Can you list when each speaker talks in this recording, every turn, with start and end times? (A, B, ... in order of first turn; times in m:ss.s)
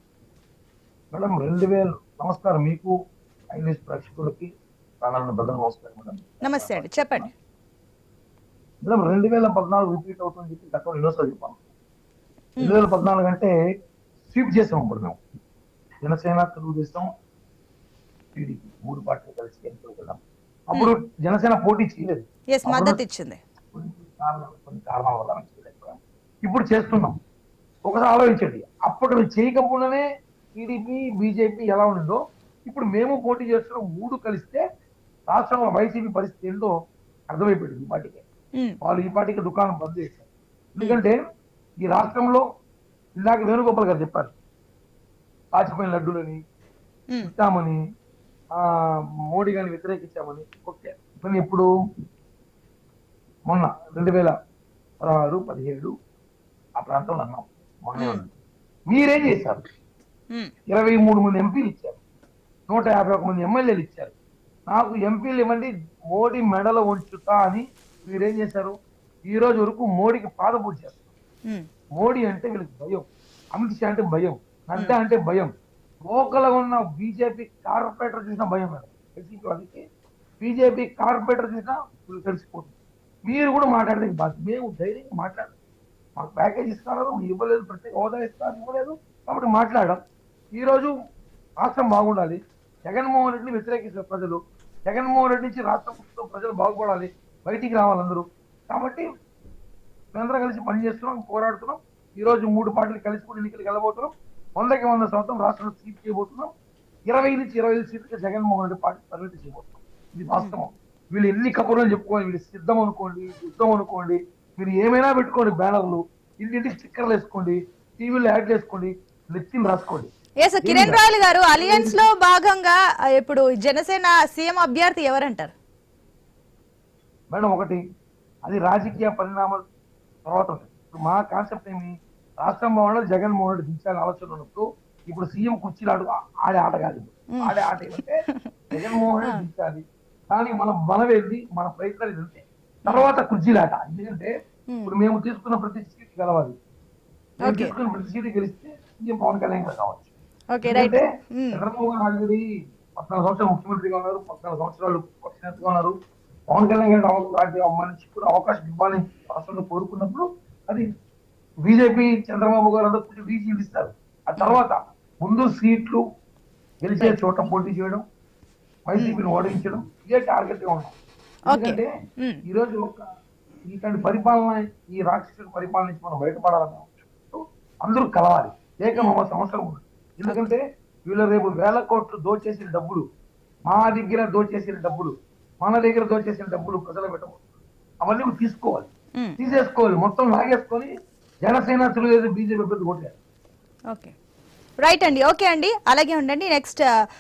0:01.1-0:02.9 A
0:03.5-0:04.5 A
0:05.0-0:07.3 A
0:06.4-0:07.3 B
0:08.8-0:11.6 A
0:12.6-0:13.5 A
0:14.3-0:15.2 A
0:16.0-0:17.1 A
0:18.4-0:23.0 A
0:22.5-0:23.4 B
0:23.7-0:27.2 A
0:27.8-0:30.0 A
0:30.6-0:34.6 A
0:35.3-0:36.7 A
0:37.3-0:38.2 A
0:38.8-0:41.2 A
0:41.8-0:42.4 A
0:43.2-0:44.3 A
0:45.5-0:46.4 A
0:47.2-0:47.8 A
0:48.5-0:51.7 A
0:53.5-0:54.4 A
0:55.0-0:55.9 A
0:56.8-0:58.3 A
0:58.0-0:58.2 B
0:58.9-0:59.6 A
1:00.7-1:02.0 A
1:02.7-1:04.1 A
1:04.7-1:11.0 A
1:12.0-1:15.5 A
1:16.0-1:19.8 A
1:20.4-1:22.7 A
1:23.2-1:25.5 A
1:26.2-1:30.0 A
1:30.6-1:30.9 A
1:31.6-1:39.1 A
1:40.1-1:46.5 A
1:47.1-2:00.1 A
2:00.4-2:05.5 B
2:00.6-2:02.0 A
2:07.3-2:07.8 A
2:08.4-2:09.6 A
2:10.2-2:24.3 A
2:17.4-2:18.5 B
2:22.9-2:23.1 B
2:24.7-2:25.0 B
2:24.8-2:26.6 A
2:27.4-2:27.7 B
2:27.4-2:30.1 A
2:30.5-2:31.6 B
2:30.6-2:32.4 A
2:33.0-2:35.9 A
2:36.5-2:40.9 A
2:41.6-2:46.0 A
2:46.8-2:48.0 A
2:48.9-2:50.9 A
2:49.0-2:49.4 B
2:51.5-2:51.9 A
2:51.5-2:52.4 B
2:52.5-2:53.1 A
2:53.7-3:03.1 A
3:00.3-3:00.6 B
3:03.7-3:07.4 A
3:08.0-3:10.9 A
3:11.4-3:13.2 A
3:14.8-3:16.8 B